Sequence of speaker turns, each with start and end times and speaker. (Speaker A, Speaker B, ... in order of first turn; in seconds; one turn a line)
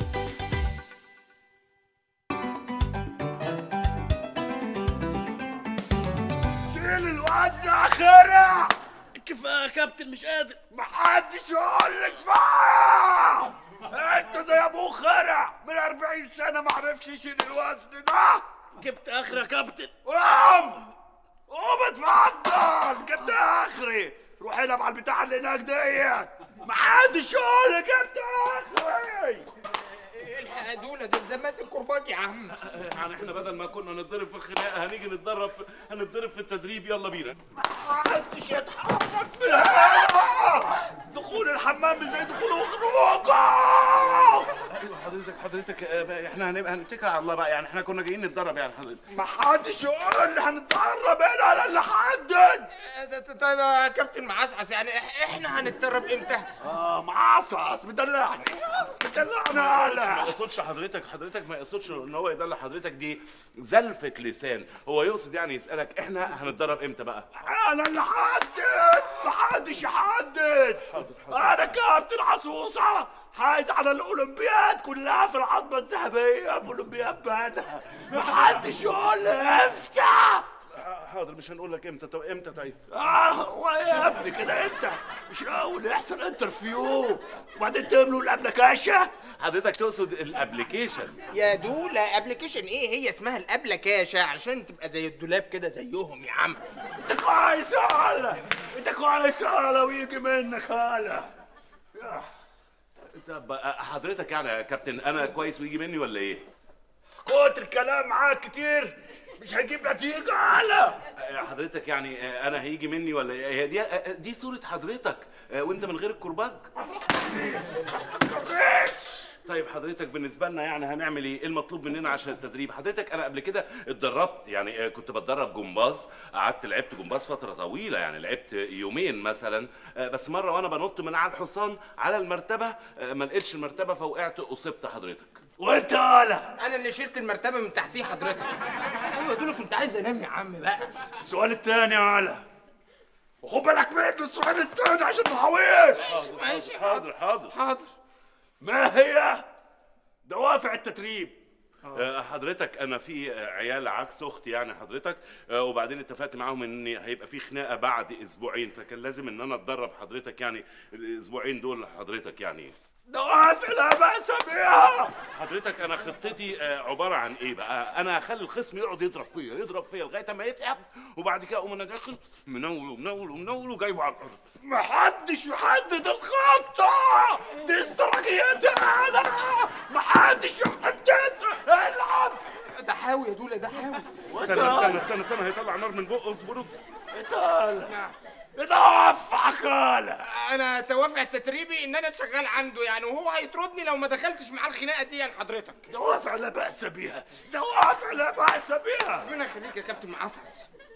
Speaker A: 6.7-8.7
Speaker B: 9.2-10.5
Speaker A: 9.3-18.4
Speaker B: 18.8-19.8
Speaker A: 19.0-20.9
Speaker A: 21.5-29.4
Speaker C: 29.9-32.6
Speaker B: 32.6-37.4
Speaker A: 37.5-44.6
Speaker B: 44.7-49.0
Speaker A: 49.1-52.7
Speaker C: 52.8-56.5
Speaker A: 56.6-60.4
Speaker B: 59.5-67.4
Speaker A: 67.4-80.5
Speaker B: 70.9-71.5
Speaker B: 80.7-82.8
Speaker A: 82.9-89.1
Speaker B: 89.4-91.2
Speaker C: 91.3-96.6
Speaker A: 97.0-101.3
Speaker A: 102.0-102.3
Speaker B: 103.1-106.4
Speaker A: 107.2-111.0
Speaker B: 111.2-116.7
Speaker A: 117.0-119.3
Speaker B: 119.5-135.4
Speaker A: 135.6-136.5
Speaker C: 136.6-140.9
Speaker A: 141.2-142.4
Speaker A: 143.4-146.2
Speaker C: 146.0-147.9
Speaker B: 146.1-147.5
Speaker A: 148.6-149.5
Speaker A: 150.3-151.4
Speaker B: 151.9-162.8
Speaker A: 163.1-165.2
Speaker B: 165.3-174.3
Speaker A: 174.6-182.4
Speaker C: 182.8-184.1
Speaker B: 184.3-186.7
Speaker A: 184.4-185.0
Speaker A: 187.1-187.9
Speaker C: 187.9-188.1
Speaker A: 188.6-190.2
Speaker C: 190.3-195.8
Speaker A: 195.9-199.3
Speaker C: 199.2-200.7